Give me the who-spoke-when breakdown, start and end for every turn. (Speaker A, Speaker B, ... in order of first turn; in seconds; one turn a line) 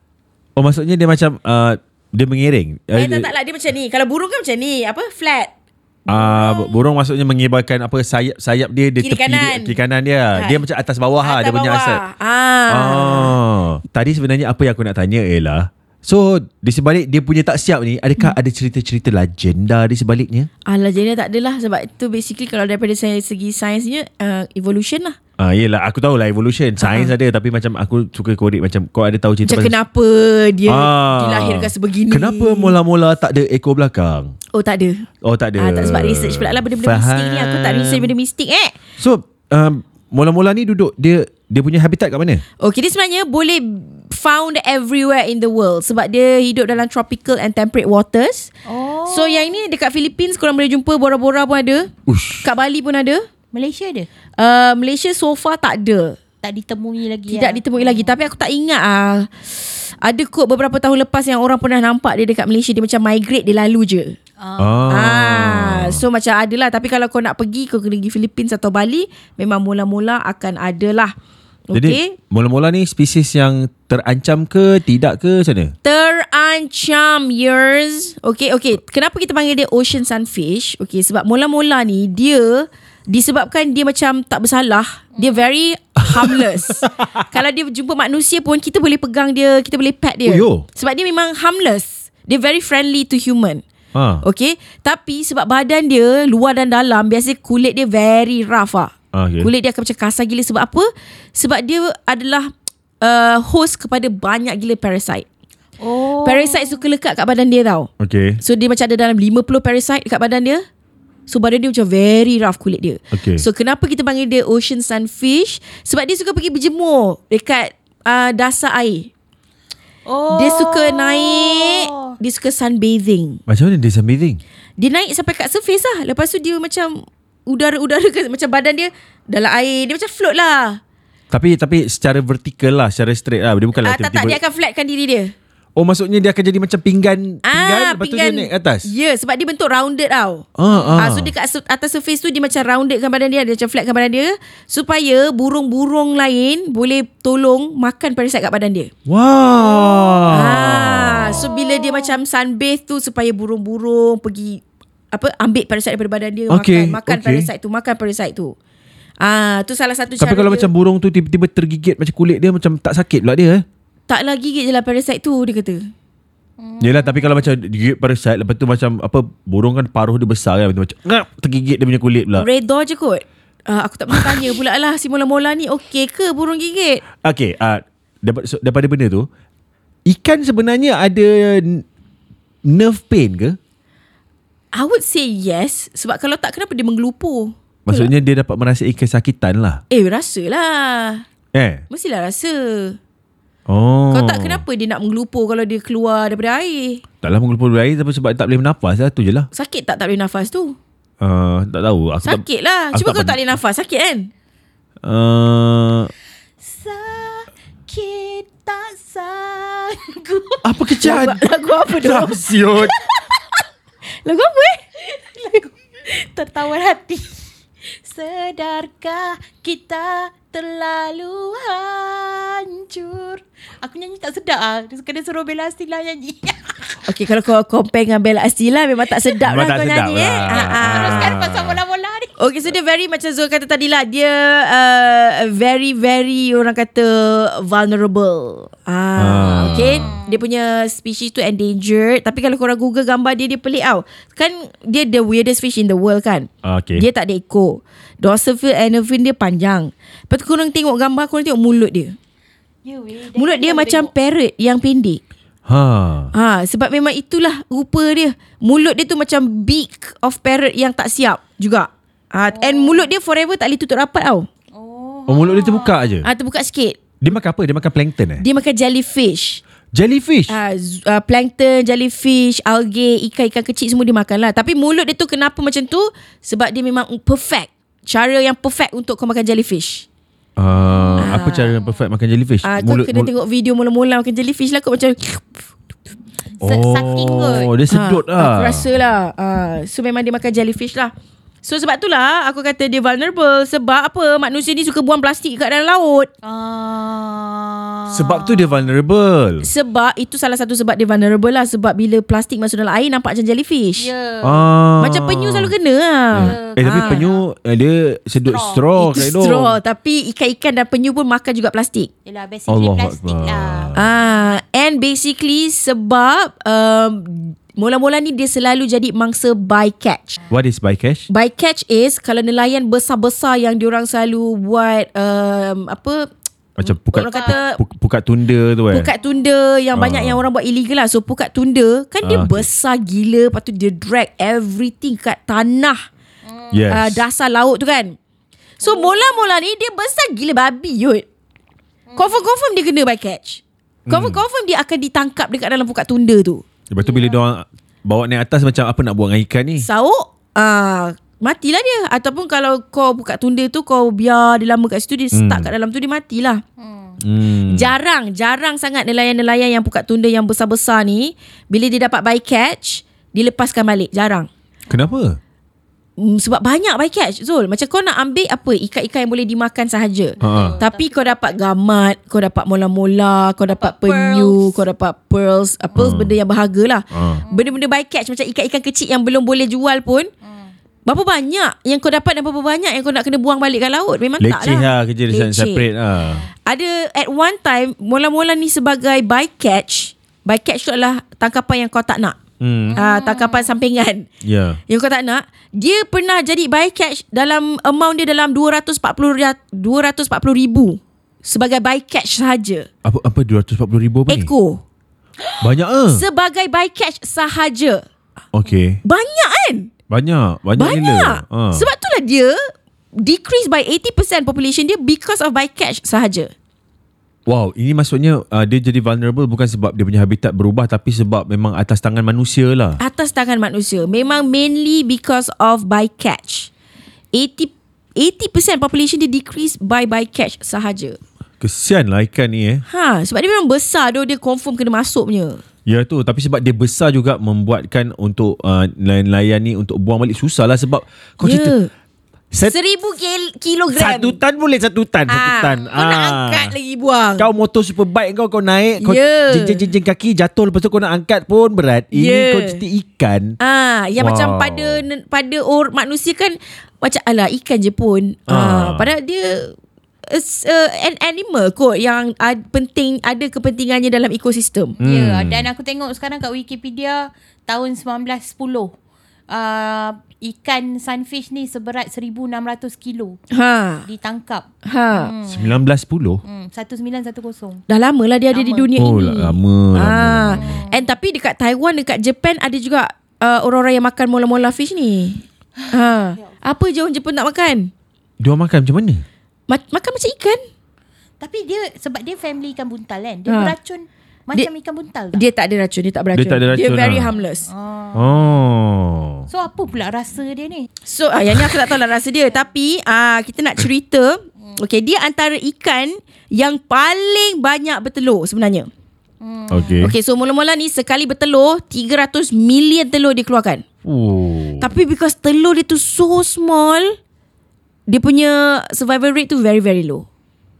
Speaker A: 0.6-3.3
Speaker B: 2.9-5.5
Speaker B: 6.0-6.8
Speaker A: 6.1-12.0
Speaker B: 9.0-9.8
Speaker B: 10.3-10.6
Speaker B: 11.2-13.3
Speaker A: 12.7-20.5
Speaker B: 20.7-25.2
Speaker A: 25.4-29.8
Speaker B: 26.8-27.1
Speaker B: 29.4-32.7
Speaker A: 30.7-34.3
Speaker B: 34.5-35.0
Speaker A: 35.2-38.1
Speaker B: 35.6-38.7
Speaker A: 39.0-42.4
Speaker B: 42.6-48.5
Speaker C: 48.6-49.5
Speaker B: 49.1-51.9
Speaker A: 52.1-52.5
Speaker B: 52.4-53.2
Speaker C: 53.5-54.1
Speaker B: 54.4-56.2
Speaker C: 56.4-58.1
Speaker B: 57.3-59.4
Speaker B: 60.0-64.2
Speaker C: 64.4-65.0
Speaker A: 64.6-66.0
Speaker B: 64.9-71.1
Speaker B: 71.7-72.1
Speaker A: 71.7-75.7
Speaker B: 75.8-93.6
Speaker C: 85.2-85.4
Speaker A: 86.0-87.2
Speaker A: 90.2-90.6
Speaker A: 93.9-94.2
Speaker B: 94.2-102.5
Speaker A: 99.1-99.5
Speaker B: 103.0-105.2
Speaker C: 105.8-106.8
Speaker B: 106.2-107.9
Speaker A: 108.0-108.4
Speaker B: 108.4-110.6
Speaker B: 111.3-119.1
Speaker A: 113.1-113.5
Speaker C: 120.0-122.1
Speaker B: 120.3-123.4
Speaker A: 123.5-124.4
Speaker B: 124.8-130.8
Speaker A: 131.3-134.4
Speaker B: 133.8-135.3
Speaker A: 135.8-138.9
Speaker B: 137.4-148.9
Speaker A: 140.6-141.3
Speaker C: 140.7-141.1
Speaker A: 149.1-151.4
Speaker C: 149.6-150.3
Speaker B: 150.3-158.5
Speaker C: 151.2-152.2
Speaker A: 156.5-157.5
Speaker B: 159.2-160.7
Speaker A: 160.2-163.6
Speaker B: 164.1-165.8
Speaker C: 166.6-167.5
Speaker A: 166.8-172.5
Speaker B: 172.4-177.0
Speaker A: 174.1-174.4
Speaker A: 177.2-179.3
Speaker A: 180.1-181.8
Speaker A: 182.6-183.6
Speaker B: 184.7-188.1
Speaker A: 187.8-189.8
Speaker B: 189.9-191.2
Speaker A: 191.5-191.8
Speaker B: 191.9-193.0
Speaker A: 193.7-194.6
Speaker B: 194.1-197.0
Speaker A: 197.2-199.5
Speaker B: 199.5-200.8
Speaker A: 201.2-203.4
Speaker B: 202.2-204.3
Speaker A: 205.0-206.1
Speaker C: 206.6-210.7
Speaker A: 210.6-212.9
Speaker B: 211.0-212.5
Speaker B: 213.0-213.4
Speaker B: 214.2-214.8
Speaker C: 215.0-217.3
Speaker C: 218.0-226.9
Speaker B: 227.1-231.3
Speaker A: 229.4-231.8
Speaker C: 230.5-232.3
Speaker B: 232.4-252.2
Speaker A: 239.2-240.2
Speaker C: 239.5-240.4
Speaker A: 246.6-247.0
Speaker C: 252.8-254.1
Speaker B: 253.3-255.2
Speaker A: 255.7-256.3
Speaker B: 256.3-264.5
Speaker C: 262.5-263.1
Speaker C: 264.7-266.2
Speaker A: 265.3-266.3
Speaker B: 266.2-267.0
Speaker A: 267.2-268.4
Speaker B: 268.4-269.6
Speaker A: 269.9-270.6
Speaker B: 270.5-280.1
Speaker A: 280.6-283.3
Speaker C: 280.8-281.9
Speaker B: 281.2-281.7
Speaker B: 282.6-285.5
Speaker C: 286.6-287.7
Speaker A: 286.6-288.9
Speaker B: 287.9-291.1
Speaker B: 291.6-296.3
Speaker C: 296.4-298.9
Speaker A: 298.1-299.7
Speaker B: 299.6-304.1
Speaker C: 304.0-304.7
Speaker A: 304.4-305.7
Speaker B: 305.0-307.2
Speaker A: 306.3-309.8
Speaker C: 306.4-307.4
Speaker C: 308.4-308.8
Speaker B: 309.0-312.1
Speaker C: 312.2-313.9
Speaker A: 312.7-314.1
Speaker B: 313.9-320.4
Speaker A: 320.5-321.3
Speaker B: 321.3-326.3
Speaker A: 326.8-329.1
Speaker B: 326.8-327.8
Speaker C: 327.2-327.6
Speaker B: 328.9-336.0
Speaker A: 329.9-330.4
Speaker A: 332.2-332.7
Speaker C: 336.4-336.9
Speaker A: 336.7-337.2
Speaker B: 336.9-338.2
Speaker B: 338.8-341.2
Speaker C: 338.8-339.5
Speaker C: 342.1-342.4
Speaker B: 342.1-346.6
Speaker A: 344.1-344.4
Speaker A: 346.9-349.9
Speaker C: 347.0-347.4
Speaker B: 349.8-356.6
Speaker A: 355.3-355.7
Speaker C: 356.8-357.2
Speaker A: 357.2-357.9
Speaker B: 357.7-364.5
Speaker C: 364.9-365.2
Speaker A: 364.9-365.4
Speaker B: 366.2-380.3
Speaker C: 370.4-371.6
Speaker A: 370.4-370.8
Speaker C: 373.7-374.8
Speaker A: 376.0-376.4
Speaker A: 377.1-377.4
Speaker C: 377.4-377.7
Speaker C: 380.4-380.7
Speaker B: 381.1-385.8
Speaker A: 384.4-386.4
Speaker C: 386.2-386.5
Speaker B: 386.6-392.4
Speaker A: 392.6-393.0
Speaker C: 392.9-393.7
Speaker B: 392.9-394.3
Speaker A: 394.4-394.8
Speaker B: 394.9-402.9
Speaker A: 403.0-404.5
Speaker B: 404.3-404.8
Speaker A: 405.6-406.2
Speaker B: 406.1-408.0
Speaker A: 408.5-409.0
Speaker B: 409.0-409.9
Speaker A: 410.1-411.9
Speaker B: 410.8-412.6
Speaker B: 413.1-416.5
Speaker A: 417.4-423.0
Speaker B: 423.0-426.7
Speaker B: 427.3-431.2
Speaker A: 431.6-432.8
Speaker B: 432.9-435.6
Speaker A: 435.9-441.7
Speaker B: 441.4-441.9
Speaker B: 442.6-444.4
Speaker A: 443.9-446.7
Speaker B: 445.3-447.5
Speaker A: 447.4-453.6
Speaker B: 449.0-449.8
Speaker B: 452.1-452.8
Speaker B: 453.6-459.8
Speaker A: 454.2-455.0
Speaker A: 458.5-459.1
Speaker B: 460.3-465.0
Speaker A: 465.0-465.7
Speaker C: 465.0-468.9
Speaker C: 469.5-473.4
Speaker B: 473.5-474.1
Speaker C: 474.1-475.7
Speaker B: 474.9-475.3
Speaker A: 475.5-476.4
Speaker C: 476.4-477.8
Speaker B: 477.9-487.9
Speaker C: 478.5-478.9
Speaker A: 478.9-480.6
Speaker C: 480.5-481.1
Speaker C: 485.8-486.5
Speaker A: 488.4-489.2
Speaker B: 489.7-490.6
Speaker C: 491.4-495.4
Speaker B: 493.5-493.7
Speaker B: 495.3-497.6
Speaker A: 496.3-497.3
Speaker C: 497.7-498.4
Speaker A: 498.1-499.5
Speaker C: 499.5-500.9
Speaker B: 501.1-508.9
Speaker C: 509.4-510.1
Speaker A: 509.7-510.1
Speaker B: 510.0-513.8
Speaker A: 514.0-514.9
Speaker B: 514.8-517.2
Speaker B: 518.1-520.2